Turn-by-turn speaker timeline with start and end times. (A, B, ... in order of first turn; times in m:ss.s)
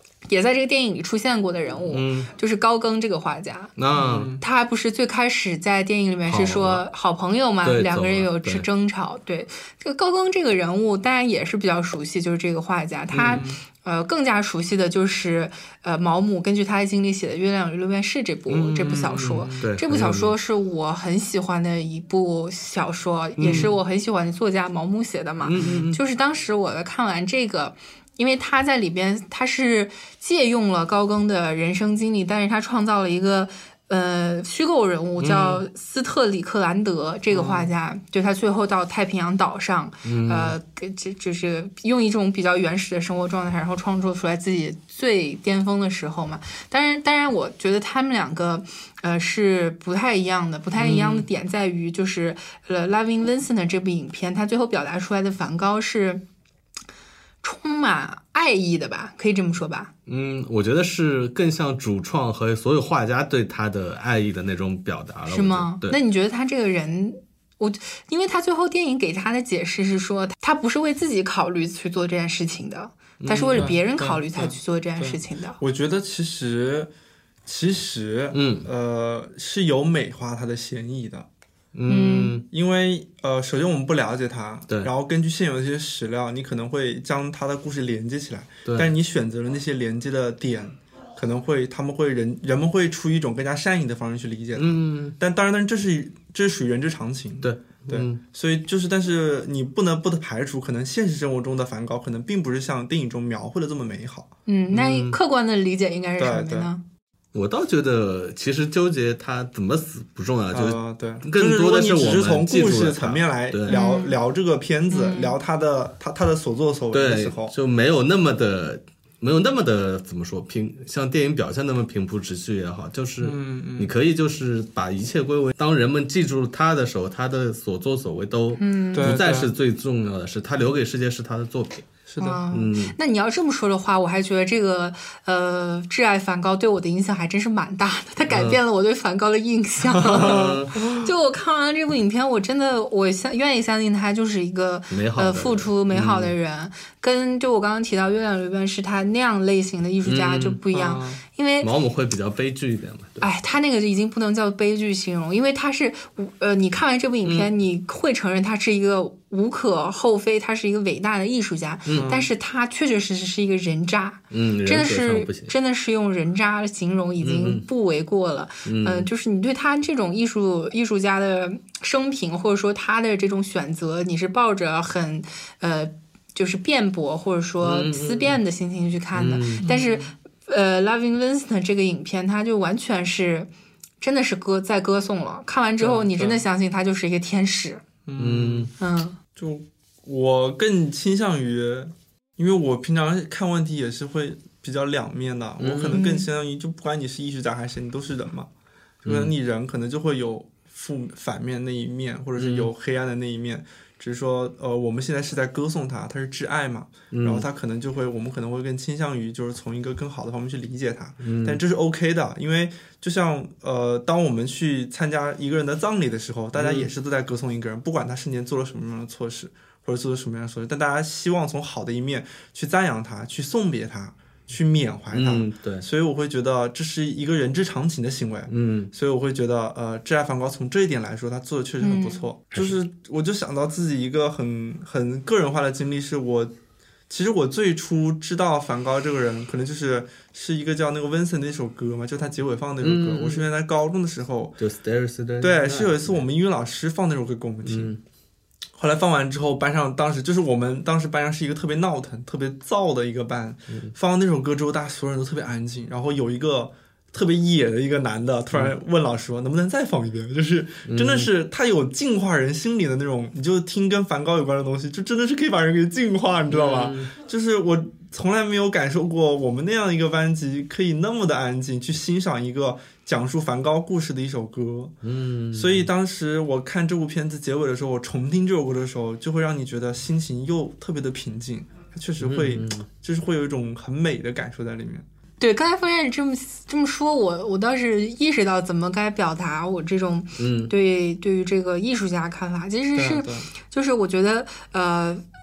0:00.3-0:03.7 A
0:01.9-0:02.3 B
0:03.8-0:04.4 B
0:03.9-0:04.4 C
0:04.4-0:56.2 A
0:06.3-0:06.8 B
0:07.6-0:08.6 B
0:13.1-0:13.4 B
0:13.3-0:13.6 C
0:18.5-0:20.4 B
0:19.1-0:19.6 C
0:23.4-0:23.7 B
0:23.4-0:23.7 C
0:25.4-0:26.0 B
0:35.2-0:35.6 B
0:37.3-0:37.7 C
0:40.0-0:40.6 B
0:50.8-0:51.3 B
0:57.4-0:59.9 A
1:00.1-1:06.0 B
1:05.3-1:15.6 A
1:13.2-1:13.7 B
1:13.5-1:16.9 C
1:17.4-1:21.3 C
1:18.3-1:18.7 B
1:21.7-1:22.4 B
1:21.9-1:22.4 A
1:22.5-1:44.3 C
1:34.6-1:35.1 B
1:37.4-1:38.2 B
1:44.4-1:46.8 A
1:44.7-1:45.2 B
1:46.2-1:46.7 C
1:47.3-1:53.8 B
1:50.5-1:57.5 C
1:53.7-1:54.2 A
1:54.9-1:55.4 A
1:56.9-2:11.9 B
2:03.2-2:03.9 C
2:08.6-2:09.2 A
2:08.9-2:09.5 C
2:12.1-2:12.4 C
2:12.2-2:31.7 A
2:12.5-2:13.0 B
2:18.3-2:18.6 B
2:19.9-2:21.1 C
2:20.0-2:20.8 B
2:24.9-2:26.3 B
2:30.0-2:30.6 B
2:30.7-2:31.2 C
2:31.6-2:33.3 B
2:33.2-3:03.5 A
2:41.9-2:42.1 B
2:41.9-2:42.3 C
2:44.3-2:45.5 B
2:47.2-2:47.6 B
2:48.6-2:49.1 B
2:57.6-2:58.4 B
2:59.1-2:59.6 B
2:59.6-3:00.1 C
3:04.0-3:07.8 A
3:05.8-3:06.4 C
3:08.1-3:08.7 C
3:08.2-3:08.7 B
3:08.8-3:09.2 A
3:09.4-3:18.5 C
3:15.6-3:16.0 B
3:15.9-3:16.3 A
3:19.0-3:56.5 C
3:19.0-3:19.3 B
3:22.4-3:22.7 B
3:27.1-3:27.4 B
3:31.2-3:31.6 B
3:36.6-3:36.9 B
3:45.1-3:45.8 B
3:48.5-3:48.9 B
3:51.8-3:52.2 A
3:57.1-4:04.6 C
4:02.8-4:03.5 B
4:04.6-4:06.2 B
4:05.4-4:07.9 C
4:07.6-4:08.0 B
4:08.8-4:34.9 C
4:20.9-4:21.3 B
4:26.5-4:27.1 B
4:35.0-4:35.9 B
4:35.5-4:45.0 C
4:42.2-4:42.8 B
4:45.4-4:55.2 A
4:50.4-4:50.7 B
4:52.9-4:53.5 C